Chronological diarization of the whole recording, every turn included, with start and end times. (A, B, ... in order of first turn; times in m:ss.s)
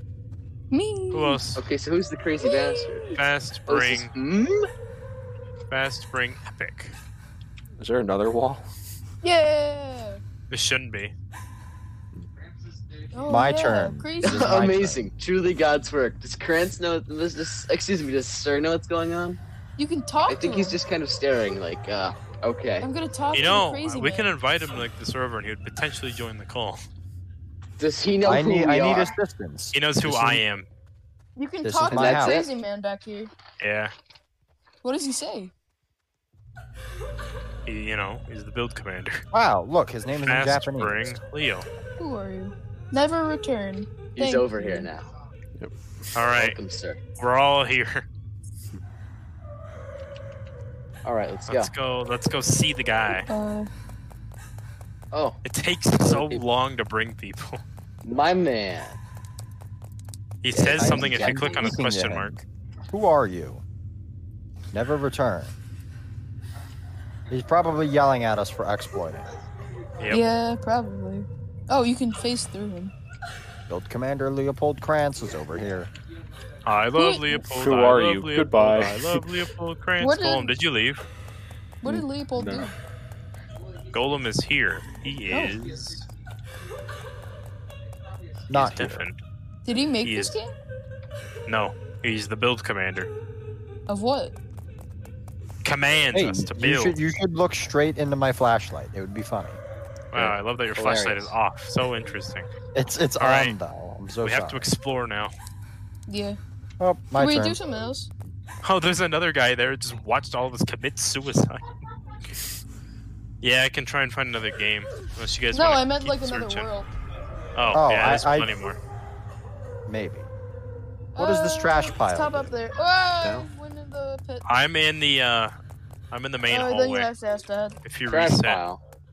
0:00.7-0:01.4 A
0:01.1-0:01.6 B
0:01.5-0:03.0 C
0:02.4-0:03.2 A
0:03.1-0:04.1 B
0:03.7-0:04.6 C
0:05.7-0:06.9 B
0:07.8-0:08.7 D
0:09.2-0:10.2 A
0:10.5-0:11.1 B
0:13.1-0:14.4 A
0:13.2-0:15.0 E
0:14.2-0:19.4 C
0:19.8-0:20.8 A
0:20.3-0:22.9 C
0:22.8-0:24.3 A
0:23.3-0:26.8 B
0:27.8-0:29.1 C
0:28.2-0:30.4 E
0:29.7-0:30.7 B
0:31.4-0:33.3 A
0:31.6-0:32.4 E
0:31.9-0:32.5 C
0:33.6-0:33.9 B
0:34.8-0:35.5 A
0:37.6-0:39.2 B
0:39.3-0:41.1 E
0:40.2-0:41.7 B
0:42.0-0:44.9 A
0:44.2-0:45.0 C
0:46.1-0:46.6 B
0:46.3-0:47.0 C
0:47.2-0:48.0 B
0:51.0-0:51.7 C
0:51.5-0:53.3 B
0:53.1-0:53.7 A
0:55.1-0:55.4 C
0:55.4-0:57.6 B
0:56.0-0:56.4 C
0:58.0-0:59.0 C
1:00.4-1:02.4 B
1:00.5-1:01.7 C
1:00.7-1:03.6 E
1:04.7-1:05.5 E
1:07.3-1:09.3 E
1:10.1-1:12.9 A
1:13.7-1:15.9 E
1:16.6-1:21.0 B
1:16.9-1:17.5 A
1:17.5-1:19.2 D
1:20.0-1:20.6 A
1:21.8-1:22.7 A
1:21.8-1:22.7 D
1:23.9-1:26.0 B
1:25.3-1:25.6 A
1:28.5-1:29.0 E
1:28.5-1:29.2 B
1:29.6-1:30.5 A
1:30.0-1:30.4 B
1:31.4-1:33.1 B
1:33.9-1:34.4 A
1:35.6-1:37.0 B
1:36.1-1:39.6 E
1:40.1-1:42.5 B
1:40.8-1:41.3 C
1:42.7-1:44.7 E
1:43.2-1:43.6 B
1:44.2-1:45.3 B
1:46.1-1:46.4 A
1:46.8-1:47.6 E
1:47.1-1:48.1 A
1:48.6-1:51.8 B
1:53.4-1:56.7 B
1:55.5-1:56.9 A
1:57.5-1:58.8 B
1:57.7-1:58.5 E
1:59.9-2:00.3 E
2:01.1-2:04.4 A
2:01.2-2:02.5 E
2:03.2-2:03.5 D
2:04.4-2:05.5 B
2:06.1-2:07.1 B
2:06.5-2:07.8 A
2:07.8-2:08.6 B
2:08.1-2:08.8 C